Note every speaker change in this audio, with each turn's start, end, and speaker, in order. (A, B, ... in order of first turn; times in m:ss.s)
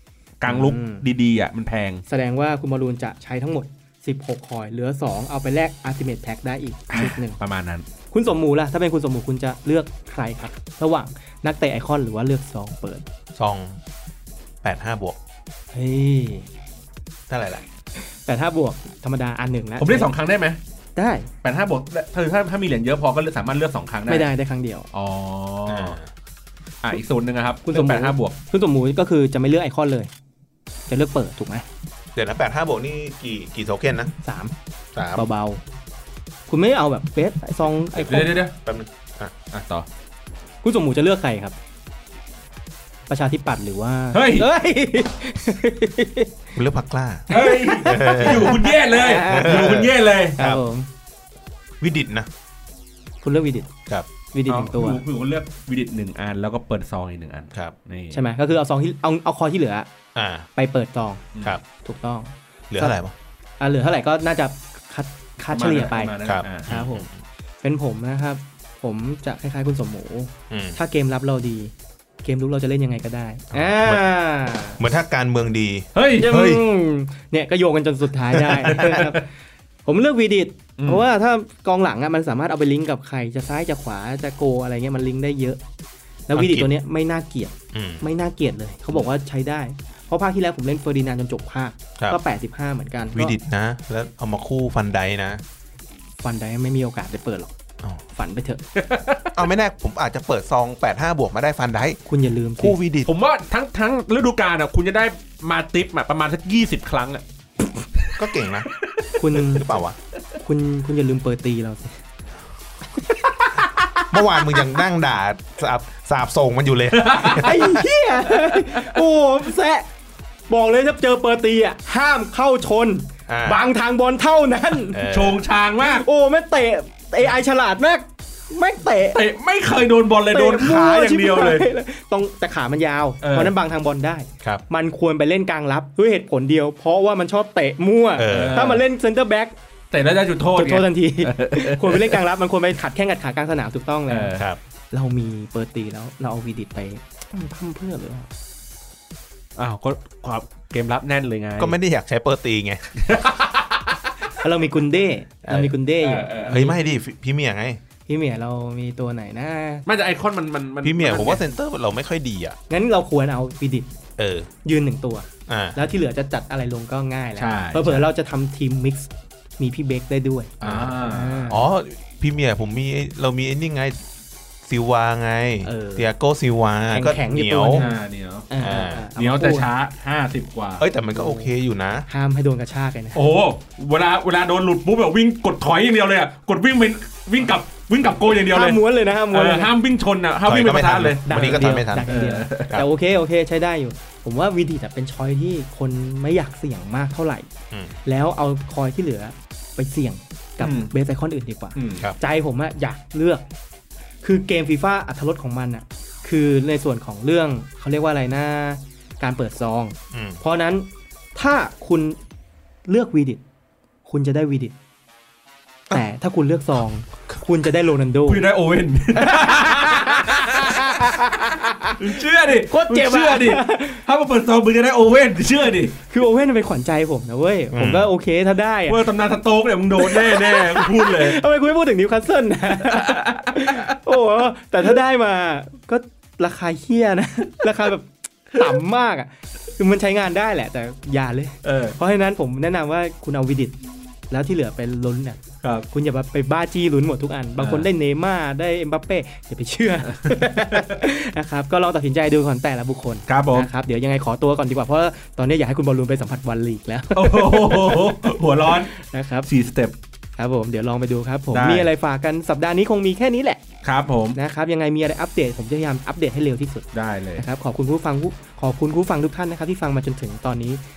0:00.4-0:02.0 A
0:00.4-0:01.0 B
0:02.1-0:07.4 B
0:06.9-0:07.8 A
0:08.1-0:13.0 B
0:13.3-0:13.8 C
0:14.6-0:15.2 C
0:15.7-0:16.5 B
0:17.3-0:17.6 C
0:18.2-0:20.1 B
0:19.8-0:20.6 A
0:21.0-0:21.3 B
0:21.4-0:24.3 A
0:24.1-0:24.9 B
0:24.9-0:26.0 A
0:25.7-0:26.1 C
0:26.8-0:28.4 A
0:27.6-0:30.1 B
0:30.9-0:31.6 B
0:32.1-0:34.1 C
0:34.2-0:34.5 B
0:34.9-0:35.2 C
0:35.1-0:35.6 B
0:36.5-0:38.4 B
0:38.0-0:38.5 A
0:38.6-0:39.3 C
0:39.5-0:39.8 A
0:40.6-0:41.6 B
0:43.1-0:46.3 B
0:44.1-0:44.5 A
0:46.5-0:48.6 C
0:47.3-0:49.8 B
0:47.3-0:50.4 A
0:49.2-0:50.6 C
0:50.4-0:50.9 B
0:51.8-0:52.3 C
0:53.2-0:53.7 B
0:54.3-0:55.0 B
0:54.5-0:58.2 A
0:58.1-0:59.9 B
1:00.1-1:00.5 C
1:00.6-1:01.2 B
1:01.8-1:02.9 B
1:02.7-1:03.1 C
1:03.6-1:07.1 B
1:05.5-1:06.7 A
1:06.2-1:07.1 C
1:07.6-1:11.7 B
1:10.5-1:10.8 C
1:12.2-1:14.8 B
1:13.5-1:14.0 C
1:14.8-1:16.6 C
1:15.9-1:16.3 A
1:16.2-1:19.3 B
1:18.3-1:19.0 C
1:18.6-1:19.1 A
1:19.8-1:25.6 B
1:20.8-1:21.0 A
1:26.3-1:33.4 B
1:26.3-1:26.7 C
1:27.7-1:28.0 C
1:33.1-1:35.4 C
1:36.2-1:37.5 B
1:38.1-1:38.6 B
1:38.8-1:39.3 A
1:39.3-1:42.0 C
1:42.1-1:42.8 B
1:42.6-1:43.1 C
1:43.0-1:47.2 A
1:47.9-1:49.2 A
1:48.2-1:48.7 C
1:49.2-1:49.8 B
1:49.4-1:50.0 C
1:50.4-1:52.0 B
1:53.0-1:54.7 B
1:54.1-1:57.6 C
1:56.9-1:57.8 A
1:57.3-1:59.9 B
1:58.4-1:58.8 A
2:00.5-2:05.0 B
2:03.3-2:03.6 C
2:04.9-2:05.4 C
2:05.1-2:06.0 A
2:05.8-2:09.2 B
2:09.1-2:11.6 A
2:10.3-2:19.5 B
2:13.2-2:13.5 A
2:18.2-2:18.8 C
2:18.3-2:18.8 A
2:19.9-2:22.2 A
2:20.5-2:24.3 B
2:24.1-2:24.5 A
2:24.9-2:28.3 B
2:29.6-2:31.7 A
2:31.6-2:33.0 C
2:33.0-2:34.1 A
2:34.4-2:36.6 B
2:35.4-2:35.7 C
2:36.0-2:36.7 A
2:36.4-2:37.8 C
2:38.1-2:39.8 B
2:39.9-2:41.4 A
2:40.8-2:42.6 C
2:42.7-2:43.9 B
2:44.2-2:44.5 C
2:44.6-2:51.6 B
2:45.5-2:45.8 C
2:47.4-2:48.0 A
2:50.6-2:51.5 A
2:50.6-2:54.0 C
2:54.6-2:57.8 C
2:55.6-2:56.1 B
2:56.9-2:57.9 B
2:57.7-2:58.5 A
2:58.5-2:59.7 B
2:58.6-2:59.1 C
2:59.2-3:00.8 A
3:00.8-3:02.0 C
3:01.1-3:01.5 B
3:02.1-3:03.3 B
3:03.1-3:12.8 A
3:08.5-3:09.7 B
3:10.4-3:12.8 C
3:11.2-3:17.5 B
3:18.0-3:23.4 B
3:20.6-3:20.9 A
3:21.8-3:22.1 A
3:24.2-3:32.2 B
3:30.1-3:30.4 C
3:32.9-3:33.4 B
3:34.0-3:34.7 B
3:35.9-3:38.4 B
3:38.3-3:41.2 A
3:39.1-3:44.0 B
3:42.0-3:46.0 A
3:46.1-3:49.0 B
3:47.7-3:48.1 C
3:48.9-3:51.4 A
3:50.0-4:03.8 B
3:52.8-3:54.0 A
4:01.6-4:02.0 A
4:04.3-4:19.5 B
4:07.6-4:07.8 A
4:10.1-4:11.0 A
4:13.3-4:13.7 A
4:17.1-4:18.9 A
4:19.4-4:19.9 A
4:20.4-4:23.6 B
4:21.5-4:21.9 A
4:23.8-4:24.4 A
4:24.3-4:30.8 B
4:26.9-4:27.4 A